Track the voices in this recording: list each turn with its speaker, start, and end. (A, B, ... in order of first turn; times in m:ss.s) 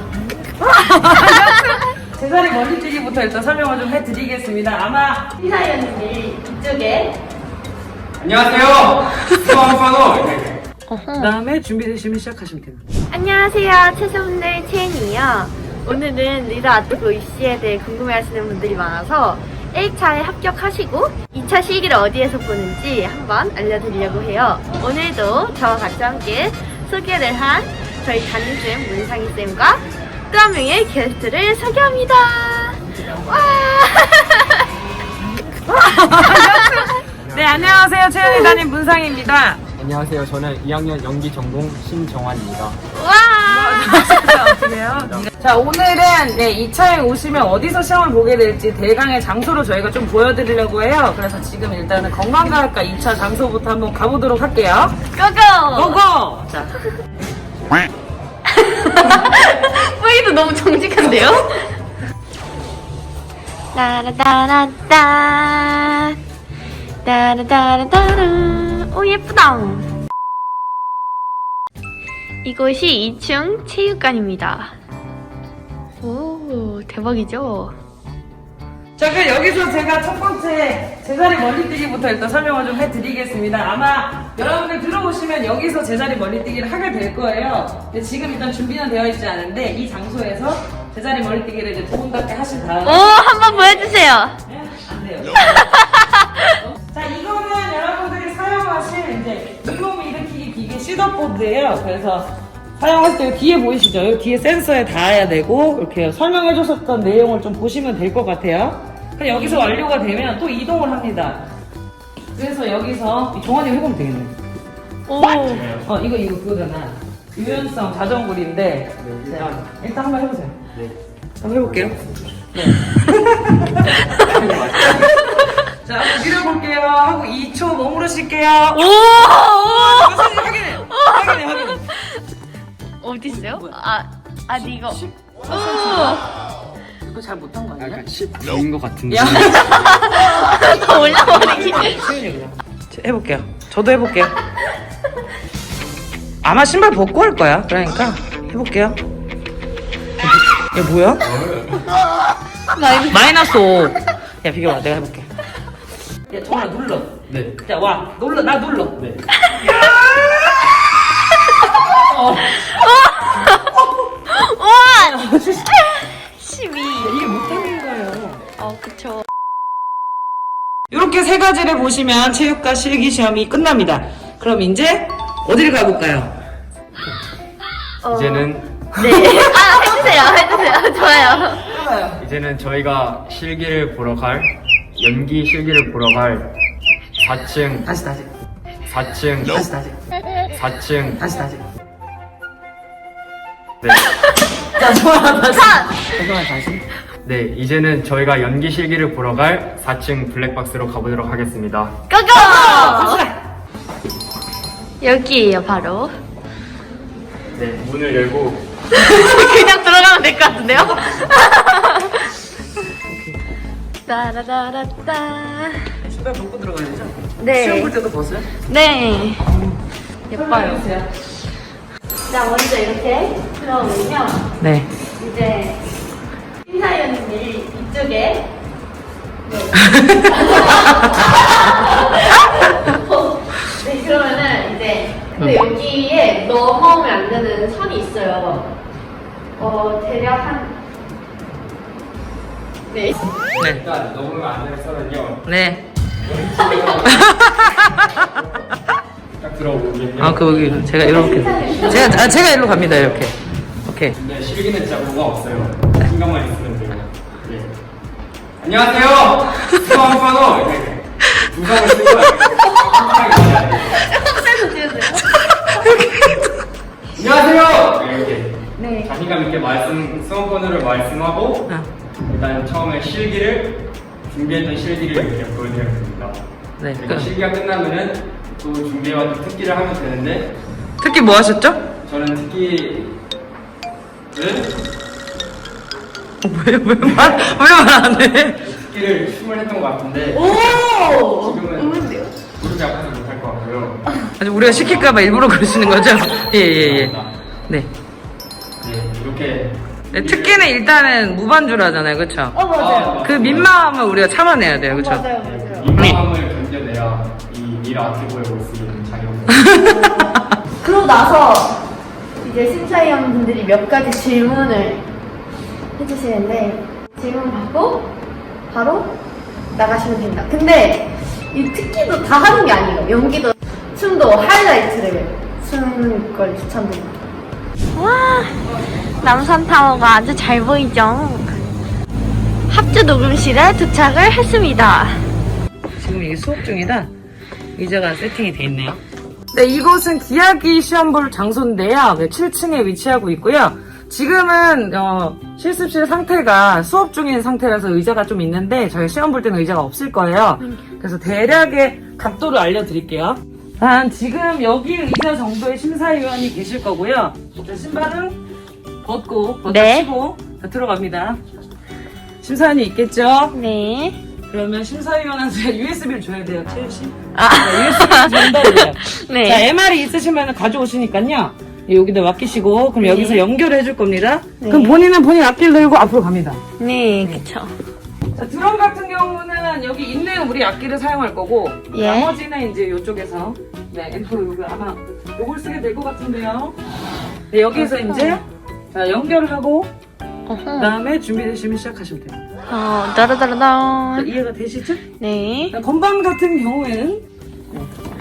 0:00.5-0:05.3 A
0:05.4-0:07.2 B
0:08.2-0:10.6 C
0:10.9-0:11.3 B
0:11.2-0:12.8 A
0:13.1-0:34.7 B
0:35.7-0:39.6 A
0:36.4-0:36.9 B
0:37.2-0:37.9 C
0:38.2-0:38.6 B
0:39.8-0:42.8 C
0:42.9-0:44.5 B
0:43.4-0:55.0 A
0:44.9-0:45.3 C
0:55.1-0:56.0 B
0:55.7-0:56.8 A
0:58.5-1:01.7 B
1:03.7-1:06.2 B
1:07.0-1:09.9 B
1:12.4-1:14.7 B
1:16.0-1:17.7 B
1:19.0-1:35.8 A
1:32.8-1:34.4 B
1:35.6-1:36.5 B
1:36.4-1:51.4 A
1:49.3-1:49.7 B
1:52.3-1:54.3 A
1:55.1-1:55.7 B
1:55.4-1:55.9 C
1:55.7-2:00.6 A
1:57.4-1:57.7 C
1:59.0-1:59.6 C
2:00.7-2:02.4 C
2:01.4-2:02.0 A
2:02.5-2:11.9 A
2:03.8-2:05.4 C
2:05.1-2:05.5 B
2:08.7-2:12.2 B
2:13.0-2:16.2 B
2:13.2-2:13.8 A
2:14.6-2:16.2 A
2:17.0-2:18.0 A
2:17.8-2:20.0 C
2:19.1-2:24.4 A
2:19.6-2:22.0 B
2:26.4-2:29.0 A
2:30.2-2:31.3 A
2:31.2-2:31.9 C
2:32.7-2:33.2 B
2:33.1-2:35.3 A
2:36.3-2:39.0 A
2:37.3-2:37.6 C
2:39.0-2:39.2 C
2:39.4-2:40.0 B
2:39.5-2:40.7 A
2:41.8-2:42.8 A
2:42.5-2:43.7 B
2:43.7-2:44.3 A
2:44.3-2:45.2 B
2:44.9-2:45.8 A
2:45.7-2:47.3 B
2:47.0-2:48.4 A
2:48.6-2:49.2 B
2:50.9-2:56.3 A
2:58.0-3:01.7 B
2:58.1-2:58.8 C
2:59.0-3:00.0 A
3:01.6-3:02.2 A
3:02.2-3:06.5 C
3:07.2-3:07.9 C
3:07.8-3:08.3 A
3:08.9-3:09.6 C
3:09.4-3:10.0 A
3:10.5-3:11.2 C
3:11.2-3:11.6 A
3:13.8-3:14.1 C
3:14.7-3:16.8 A
3:15.5-3:16.0 B
3:17.2-3:21.9 C
3:22.1-3:23.2 B
3:22.3-3:23.4 A
3:25.0-3:26.1 B
3:27.5-3:28.7 C
3:28.9-3:32.3 B
3:33.0-3:33.4 A
3:34.0-3:35.9 B
3:36.0-3:38.5 A
3:37.4-3:37.9 B
3:38.7-3:39.5 B
3:39.4-3:39.8 A
3:40.3-3:40.9 B
3:40.3-3:41.1 A
3:42.2-3:44.4 B
3:44.6-3:44.9 A
3:45.2-3:45.8 B
3:46.6-3:48.5 B
3:49.4-3:58.7 B
3:49.8-3:50.1 A
3:59.6-4:00.7 B
4:02.9-4:03.2 B
4:03.5-4:05.5 C
4:03.6-4:03.8 A
4:05.4-4:05.8 A
4:06.2-4:07.4 C
4:06.6-4:07.0 B
4:07.0-4:08.3 A
4:08.0-4:08.7 C
4:09.4-4:13.2 C
4:10.2-4:14.2 A
4:10.6-4:12.2 B
4:14.1-4:17.7 C
4:18.6-4:24.1 C
4:24.0-4:25.3 B
4:25.6-4:26.6 A
4:27.2-4:31.7 C
4:28.8-4:29.1 B
4:32.3-4:40.5 C
4:36.8-4:37.3 A
4:41.0-4:41.8 A
4:42.0-4:43.2 C
4:44.3-4:44.8 C
4:46.4-4:48.6 A
4:47.0-4:47.5 C
4:48.6-4:55.3 C
4:50.3-4:52.3 B
4:54.4-4:57.2 A
4:56.7-4:57.3 C
4:58.8-5:00.7 C
5:00.1-5:02.6 A
5:02.5-5:03.2 B
5:02.7-5:03.7 C
5:03.2-5:05.2 A
5:04.9-5:05.9 B
5:05.4-5:09.8 C
5:09.5-5:10.4 A
5:09.8-5:10.3 B
5:10.8-5:11.8 B
5:12.4-5:15.0 B
5:16.0-5:18.1 B
5:18.7-5:19.1 B
5:19.7-5:27.1 B
5:27.9-5:28.6 B
5:28.9-5:30.1 C
5:29.2-5:31.6 B
5:32.7-5:35.2 B
5:36.0-5:37.1 A
5:37.7-5:39.0 A
5:39.5-5:58.4 A
5:59.0-6:01.4 A
5:59.6-6:00.1 B
6:02.4-6:03.6 A
6:03.5-6:04.2 B
6:04.5-6:16.6 A
6:07.3-6:09.7 B
6:13.0-6:13.4 B
6:14.6-6:15.0 B
6:16.8-6:17.7 B
6:18.3-6:26.8 A
6:21.9-6:22.3 B
6:27.5-6:29.9 A
6:28.0-6:28.4 B
6:30.5-6:30.9 B
6:30.7-6:32.4 A
6:32.7-6:34.3 B
6:34.1-6:35.0 A
6:35.2-6:35.7 B
6:35.7-6:37.9 A